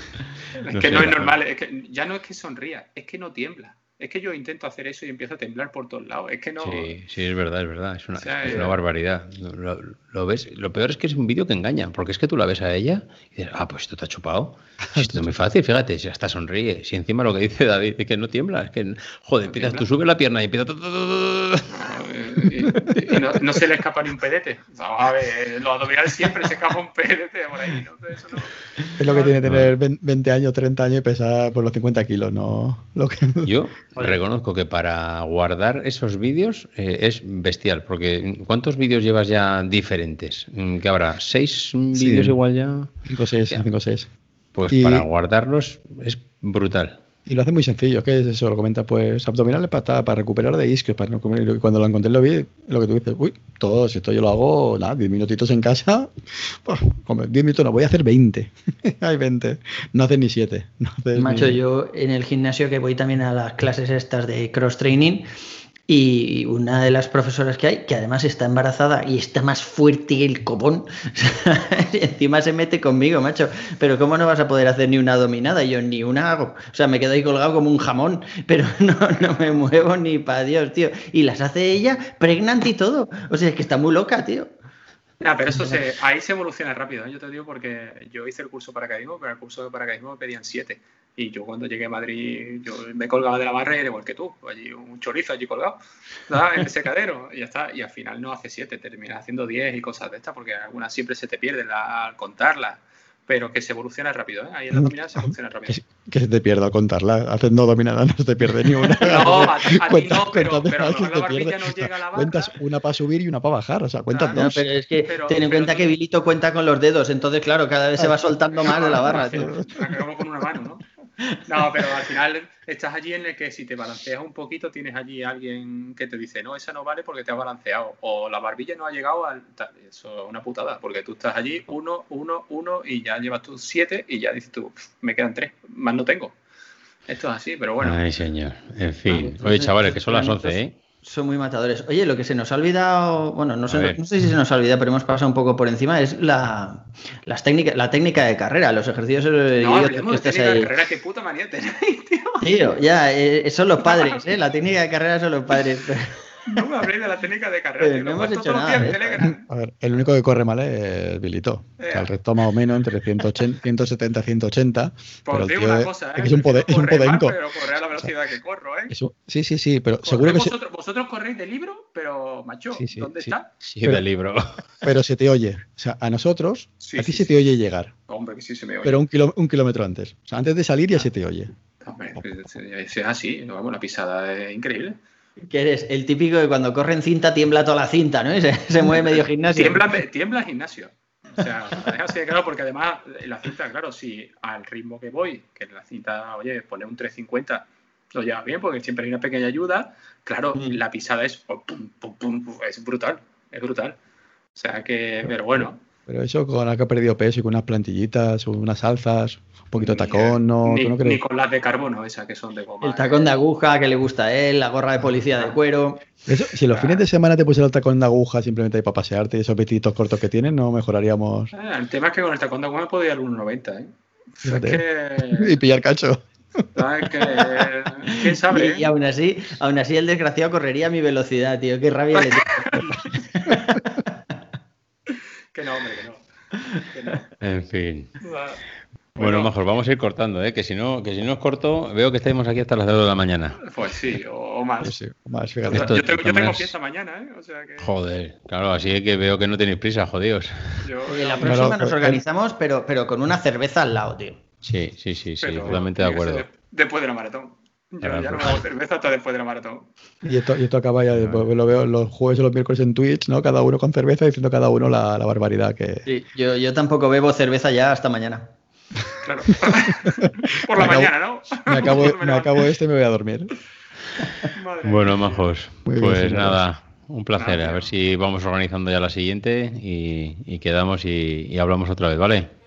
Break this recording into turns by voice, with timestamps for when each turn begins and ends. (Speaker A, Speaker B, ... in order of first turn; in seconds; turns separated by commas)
Speaker A: 0.6-6.9, Speaker B: 0.7-1.4, Speaker B: 6.6-21.7, Speaker A: 8.2-8.8, Speaker A: 19.5-19.9, Speaker A: 21.7-29.4, Speaker C: 29.0-33.5, Speaker B: 29.4-29.7, Speaker B: 33.4-42.9, Speaker C: 41.9-42.4, Speaker C: 43.0-44.1, Speaker B: 44.5-47.0, Speaker C: 44.7-45.1, Speaker C: 47.3-61.6, Speaker D: 61.1-65.3, Speaker D: 65.9-84.5, Speaker A: 85.2-105.8, Speaker C: 104.7-114.6, Speaker A: 108.9-112.5, Speaker A: 114.1-115.9, Speaker D: 114.3-119.5, Speaker A: 118.6-120.8, Speaker C: 119.1-119.9, Speaker A: 121.5-136.4, Speaker A: 137.1-138.0, Speaker B: 137.8-140.7, Speaker D: 139.1-150.7, Speaker B: 143.7-144.0, Speaker A: 149.6-152.5, Speaker D: 152.4-156.6, Speaker A: 153.8-154.2, Speaker A: 156.4-159.4, Speaker D: 157.8-159.3, Speaker C: 159.2-167.4, Speaker A: 161.8-162.1, Speaker A: 165.3-168.9, Speaker C: 168.9-170.6, Speaker A: 170.0-173.5, Speaker C: 172.7-174.0, Speaker B: 173.6-174.6, Speaker C: 174.8-177.9, Speaker A: 176.8-177.3, Speaker A: 178.1-179.0, Speaker C: 178.8-181.5, Speaker A: 181.8-185.0, Speaker D: 185.5-189.9, Speaker A: 188.9-204.0, Speaker A: 204.6-205.8, Speaker C: 205.6-211.2, Speaker A: 209.8-213.4, Speaker D: 212.8-216.0, Speaker C: 216.3-221.5, Speaker A: 216.7-217.0, Speaker A: 221.5-225.6, Speaker C: 224.4-226.7, Speaker A: 226.7-228.9, Speaker C: 227.2-227.7, Speaker D: 228.4-234.1, Speaker A: 232.1-233.0, Speaker A: 235.1-236.2, Speaker A: 236.9-237.3, Speaker B: 237.4-238.1, Speaker A: 238.2-238.6, Speaker A: 239.2-239.5, Speaker B: 239.2-243.6, Speaker A: 243.6-244.9, Speaker C: 244.8-246.6, Speaker A: 245.7-247.9, Speaker B: 247.8-250.8, Speaker A: 250.8-251.7, Speaker D: 251.1-254.4, Speaker C: 251.4-252.2, Speaker B: 254.6-256.5, Speaker A: 255.4-259.9, Speaker B: 258.0-258.6, Speaker C: 260.2-266.1, Speaker B: 261.1-261.5, Speaker D: 266.1-268.5, Speaker A: 269.2-272.7, Speaker C: 270.2-273.5, Speaker A: 274.5-275.5, Speaker B: 274.8-282.5, Speaker C: 275.9-276.6, Speaker A: 277.4-277.9